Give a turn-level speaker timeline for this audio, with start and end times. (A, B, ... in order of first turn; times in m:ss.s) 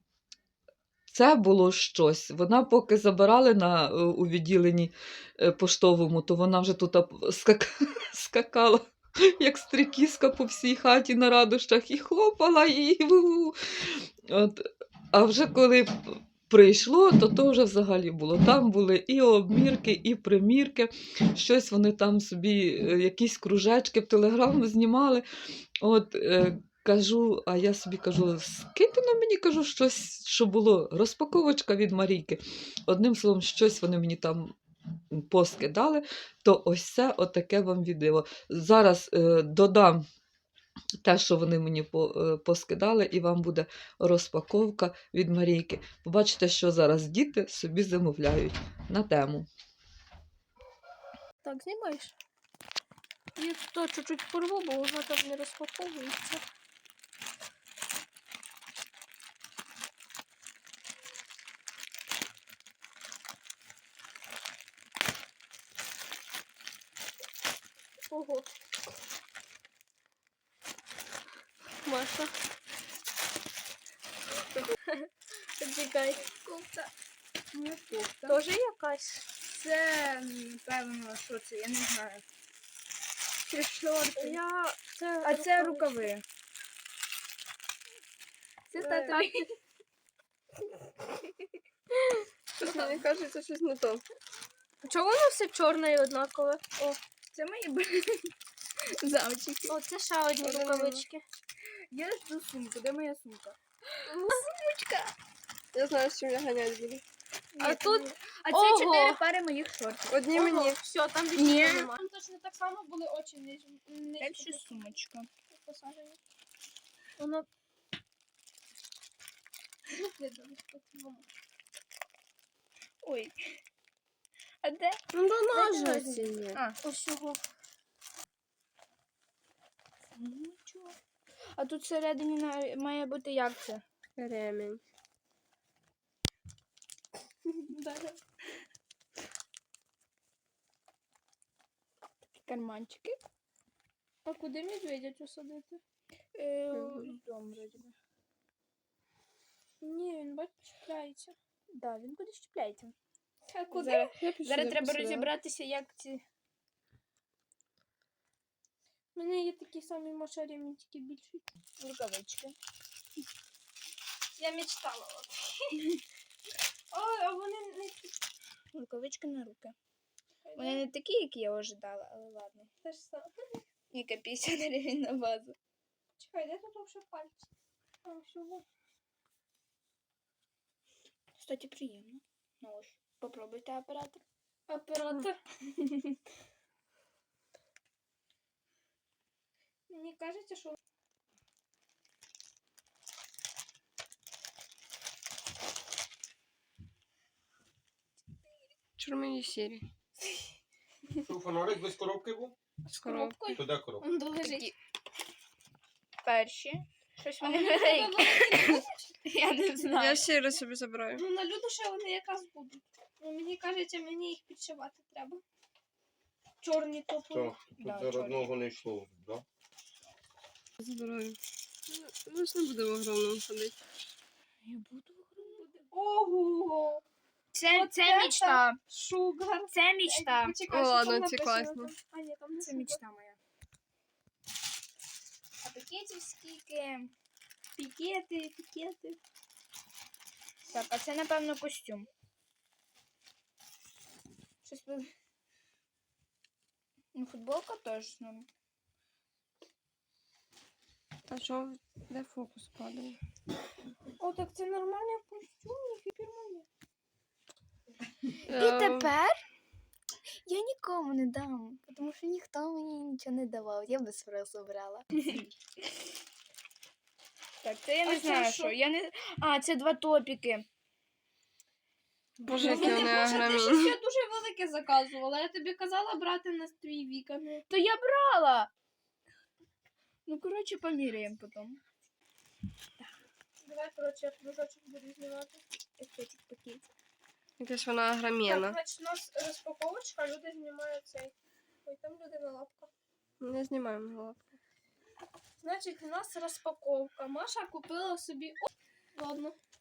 0:01.1-0:25.2 A
0:25.8-0:34.5 A
0:35.1-0:40.0 A
0:41.0-0:49.5 A
0:51.4-0:52.1 B
0:53.4-0:56.4 B
1:08.1-1:08.5 B
1:11.8-1:12.3 B
1:15.6-1:16.3 B
1:16.4-1:16.9 C
1:17.5-1:18.4 C
1:18.2-1:19.2 B
1:19.4-1:22.2 C
1:23.5-1:24.4 C
1:24.2-1:26.0 B
1:25.2-1:26.2 C
1:28.7-1:29.5 C
1:28.8-1:29.3 B
1:32.0-1:34.0 D
1:34.8-1:36.6 B
1:36.8-1:38.3 C
1:39.0-1:39.8 C
1:39.7-1:41.2 B
1:40.4-1:41.0 D
1:41.9-1:45.1 C
1:44.1-1:44.4 B
1:45.7-1:47.0 D
1:47.5-1:50.2 C
1:47.6-1:49.2 B
1:50.1-1:50.8 D
1:50.3-1:54.8 B
1:51.3-1:51.9 C
1:54.2-1:55.3 C
1:55.5-1:56.2 B
1:57.2-1:57.5 B
1:59.9-2:01.2 B
2:03.0-2:03.3 C
2:04.6-2:05.0 C
2:05.2-2:06.3 B
2:05.2-2:06.6 D
2:06.5-2:06.8 C
2:06.8-2:07.4 B
2:10.2-2:11.0 C
2:11.5-2:13.8 C
2:14.2-2:14.8 D
2:17.6-2:18.2 B
2:22.4-2:23.2 C
2:24.2-2:25.8 B
2:26.3-2:27.9 C
2:26.8-2:27.0 D
2:29.8-2:31.4 B
2:31.8-2:32.9 C
2:33.5-2:34.1 B
2:33.7-2:36.2 C
2:34.2-2:35.3 D
2:39.1-2:41.5 B
2:41.8-2:42.6 C
2:44.4-2:45.9 B
2:46.9-2:48.1 B
2:48.7-2:49.7 C
2:50.4-2:50.8 B
2:50.6-2:52.7 C
2:52.8-2:53.3 B
2:53.9-2:55.6 C
2:56.2-2:57.5 B
2:58.0-2:58.6 B
3:01.4-3:04.2 C
3:04.7-3:05.4 B
3:05.8-3:06.0 C
3:09.9-3:10.8 B
3:19.0-3:19.8 D
3:21.2-3:22.5 E
3:22.9-3:24.7 B
3:22.9-3:23.6 D
3:23.4-3:24.0 E
3:26.2-3:30.3 C
3:27.4-3:29.1 B
3:29.9-3:31.2 D
3:31.1-3:35.4 B
3:36.6-3:37.5 B
3:37.3-3:39.4 E
3:37.8-3:38.5 C
3:40.8-3:43.8 D
3:44.6-3:45.6 C
3:45.6-3:47.0 B
3:47.5-3:48.8 C
3:47.7-3:53.0 B
3:49.7-3:50.6 C
3:50.7-3:51.9 D
3:52.6-3:53.4 C
3:55.6-3:57.1 C
3:57.8-3:59.2 B
4:00.7-4:02.1 C
4:04.6-4:05.1 C
4:07.1-4:08.5 C
4:11.3-4:13.2 D
4:14.2-4:16.6 B
4:18.5-4:19.1 D
4:18.5-4:19.4 C
4:20.4-4:25.5 C
4:27.6-4:30.6 C
4:28.0-4:28.8 B
4:32.5-4:34.0 D
4:32.5-4:37.6 B
4:32.5-4:33.4 C
4:37.7-4:38.7 C
4:40.2-4:41.8 C
4:43.6-4:45.6 B
4:46.0-4:46.9 C
4:47.6-4:48.8 D
4:48.4-4:51.3 B
4:51.8-4:52.9 B
4:53.4-4:54.5 D
4:55.6-4:59.6 B